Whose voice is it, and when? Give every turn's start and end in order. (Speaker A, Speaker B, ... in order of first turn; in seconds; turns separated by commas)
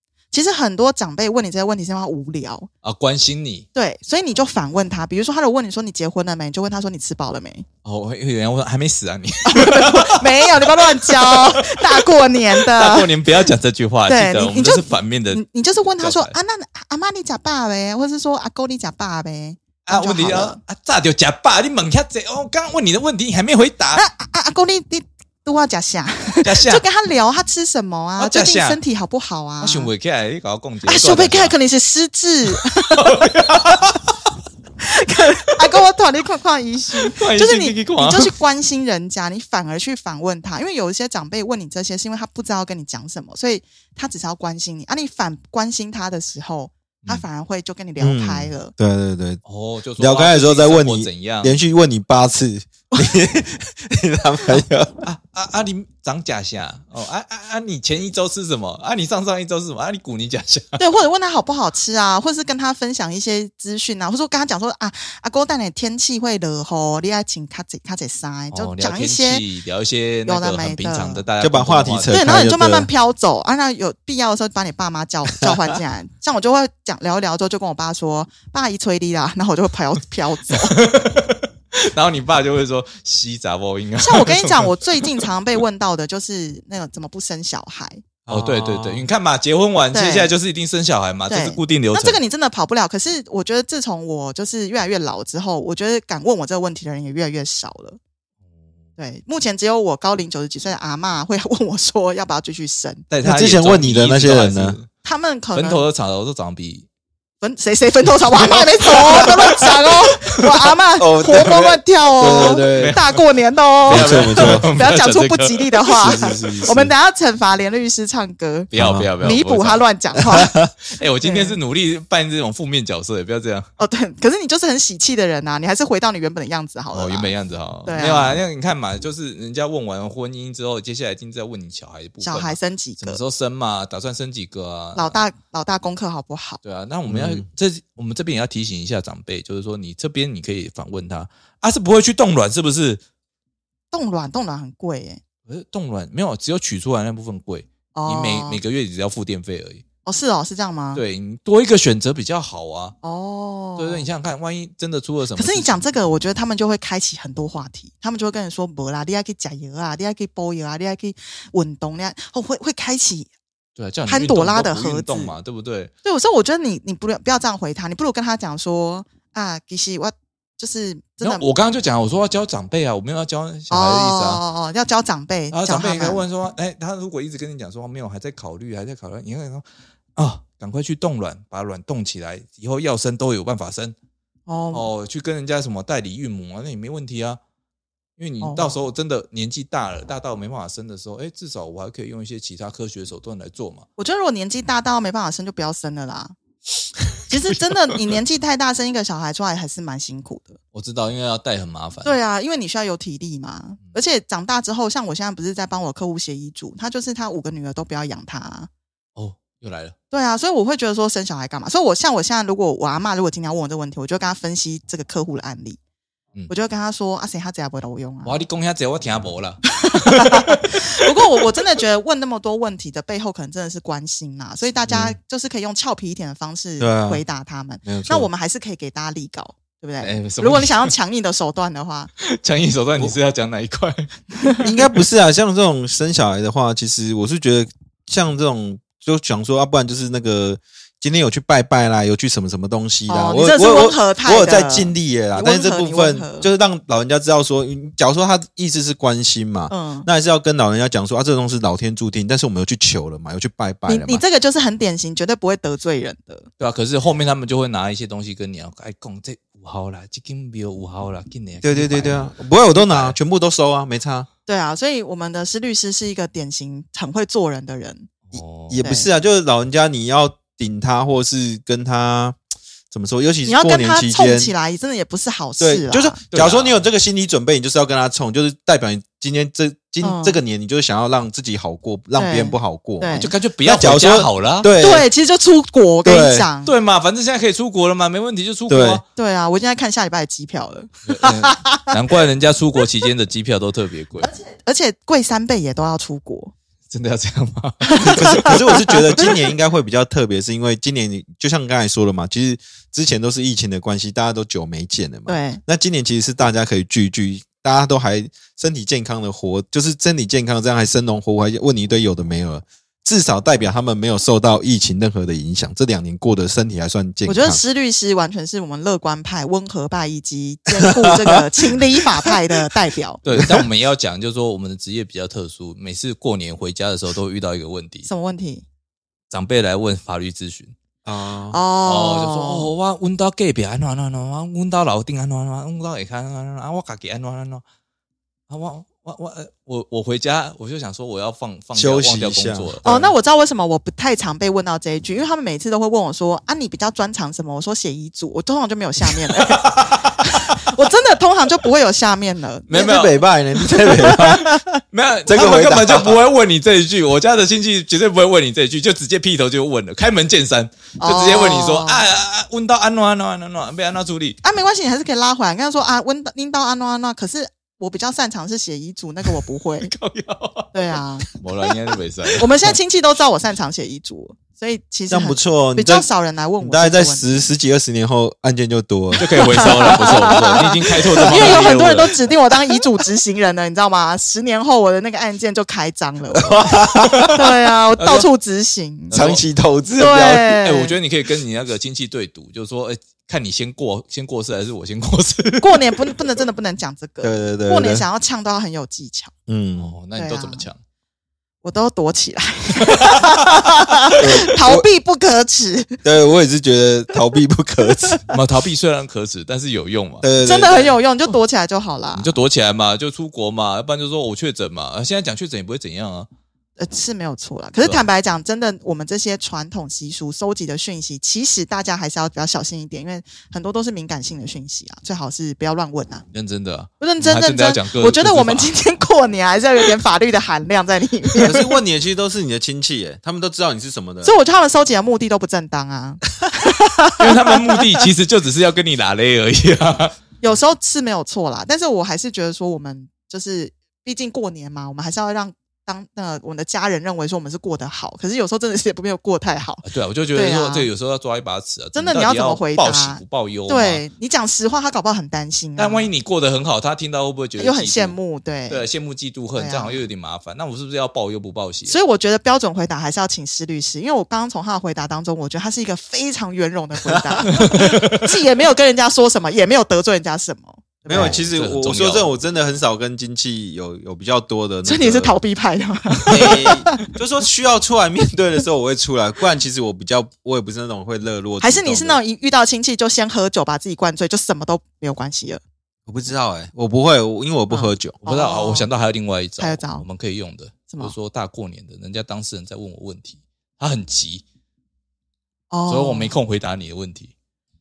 Speaker A: 0.3-2.7, Speaker B: 2.8-3.6, Speaker A: 3.8-7.7, Speaker B: 7.8-12.0, Speaker A: 9.5-13.2, Speaker B: 12.5-15.4, Speaker A: 14.1-20.6, Speaker B: 16.0-16.3, Speaker B: 19.9-24.0, Speaker A: 23.9-29.9, Speaker B: 26.4-26.8, Speaker B: 28.2-28.8, Speaker B: 29.6-31.5, Speaker A: 30.8-33.2, Speaker B: 32.5-34.0, Speaker A: 34.8-48.7, Speaker B: 37.0-38.3, Speaker C: 48.0-49.4, Speaker B: 49.4-51.6, Speaker C: 50.0-55.0, Speaker B: 55.0-60.8, Speaker A: 60.8-69.5, Speaker B: 68.5-72.2, Speaker A: 70.2-71.3, Speaker C: 71.4-72.9, Speaker A: 72.1-80.8, Speaker B: 80.5-85.3, Speaker A: 84.0-88.0, Speaker C: 88.2-89.1, Speaker B: 88.3-92.2, Speaker A: 89.9-90.3, Speaker A: 91.3-98.0, Speaker A: 99.0-103.1, Speaker B: 103.1-104.9, Speaker C: 103.2-104.8, Speaker A: 105.0-105.9, Speaker B: 105.5-106.9, Speaker A: 107.4-120.5, Speaker B: 108.3-110.5, Speaker C: 111.0-113.1, Speaker B: 112.2-113.2, Speaker C: 113.9-114.7, Speaker B: 113.9-116.6, Speaker C: 115.9-116.9, Speaker B: 118.7-119.8, Speaker C: 118.8-119.1, Speaker C: 120.3-120.7, Speaker B: 120.9-123.7, Speaker A: 121.2-121.6, Speaker A: 123.8-128.4, Speaker B: 126.9-135.2, Speaker A: 132.2-133.2, Speaker A: 134.9-136.6, Speaker B: 136.6-143.0, Speaker C: 137.1-137.4, Speaker A: 143.9-145.2, Speaker B: 145.5-149.8, Speaker A: 147.9-148.6, Speaker A: 150.1-151.0, Speaker B: 150.9-152.9, Speaker A: 153.0-154.1, Speaker B: 153.8-155.8, Speaker A: 155.4-163.3, Speaker B: 163.8-165.9, Speaker A: 164.1-165.3, Speaker A: 166.1-171.5, Speaker B: 171.2-174.4, Speaker A: 173.7-176.2, Speaker B: 175.5-179.7, Speaker B: 180.2-183.9, Speaker A: 184.5-184.9, Speaker B: 184.7-187.4, Speaker B: 188.2-193.9, Speaker A: 188.4-188.8, Speaker A: 194.0-196.3, Speaker A: 197.3-200.6, Speaker B: 200.7-202.2, Speaker A: 202.0-208.7, Speaker B: 209.2-209.9, Speaker A: 210.1-215.8, Speaker A: 216.5-218.4, Speaker B: 218.2-221.3, Speaker A: 219.7-232.1, Speaker C: 226.8-227.2, Speaker C: 227.8-228.3, Speaker B: 230.0-230.9, Speaker B: 232.2-234.6, Speaker A: 234.4-234.7, Speaker C: 234.6-254.2, Speaker A: 243.1-246.5, Speaker A: 249.7-250.1, Speaker A: 253.9-256.5, Speaker B: 256.6-263.2, Speaker C: 261.6-264.3, Speaker A: 264.5-268.1, Speaker B: 268.3-268.9, Speaker C: 268.7-272.4, Speaker A: 268.8-269.1, Speaker C: 272.9-274.5, Speaker A: 273.4-276.2, Speaker C: 275.6-285.1, Speaker B: 276.3-276.9, Speaker A: 280.0-280.4, Speaker A: 282.1-283.3, Speaker B: 283.1-284.7, Speaker A: 284.8-286.7, Speaker C: 286.0-286.5, Speaker B: 286.6-289.0, Speaker C: 288.7-289.0, Speaker A: 289.1-291.9, Speaker B: 291.1-294.3, Speaker A: 294.2-296.5, Speaker B: 296.9-298.6, Speaker A: 297.9-299.3, Speaker C: 298.0-317.6, Speaker A: 305.3-305.6, Speaker A: 317.2-323.2, Speaker C: 320.8-321.3, Speaker B: 323.2-328.1, Speaker C: 323.3-323.6, Speaker A: 328.1-328.6, Speaker B: 329.3-330.7, Speaker C: 331.1-331.6, Speaker A: 331.5-332.7, Speaker B: 331.9-337.6, Speaker B: 338.5-343.1, Speaker C: 341.7-342.7, Speaker A: 342.8-352.9, Speaker B: 349.0-350.6, Speaker B: 352.7-353.2, Speaker C: 352.7-354.5, Speaker A: 353.6-354.6, Speaker B: 354.9-364.4, Speaker C: 355.3-356.2, Speaker A: 361.0-362.1, Speaker A: 364.4-369.9, Speaker B: 369.8-370.7, Speaker A: 370.7-371.3, Speaker B: 371.3-372.8, Speaker A: 372.4-377.5, Speaker C: 375.1-376.1, Speaker C: 376.6-380.4, Speaker B: 379.1-382.2, Speaker A: 379.2-386.7, Speaker C: 381.2-381.6, Speaker C: 386.3-387.6, Speaker B: 387.0-387.4, Speaker A: 387.3-389.2, Speaker B: 388.0-388.2, Speaker B: 389.1-389.4, Speaker C: 389.1-390.6, Speaker A: 390.0-391.0, Speaker B: 390.6-396.1, Speaker A: 395.6-399.3, Speaker C: 397.2-398.1, Speaker C: 399.5-400.0, Speaker B: 399.8-400.8, Speaker A: 400.1-400.7, Speaker A: 401.6-406.0, Speaker C: 404.1-404.9, Speaker C: 406.0-408.2, Speaker B: 408.3-410.2, Speaker C: 410.2-410.9, Speaker A: 410.4-412.4, Speaker B: 412.1-416.3, Speaker A: 416.8-426.2, Speaker B: 417.8-418.1, Speaker B: 426.3-428.7, Speaker A: 427.0-431.8, Speaker C: 431.4-434.4, Speaker A: 434.2-437.8, Speaker B: 437.2-440.1, Speaker A: 440.4-450.9, Speaker B: 449.8-454.0, Speaker A: 451.9-456.1, Speaker B: 455.8-458.2, Speaker A: 457.6-458.9, Speaker B: 458.7-462.0, Speaker A: 459.5-460.0, Speaker A: 461.9-471.4, Speaker C: 467.1-467.5, Speaker B: 467.5-468.2, Speaker B: 471.1-472.3, Speaker C: 471.1-475.4, Speaker A: 474.9-477.1, Speaker C: 476.3-482.2, Speaker A: 481.6-485.6, Speaker C: 486.1-488.1, Speaker A: 487.7-488.9, Speaker B: 488.2-494.4, Speaker A: 489.6-490.1, Speaker A: 490.9-491.2, Speaker A: 495.7-496.3, Speaker B: 495.9-497.3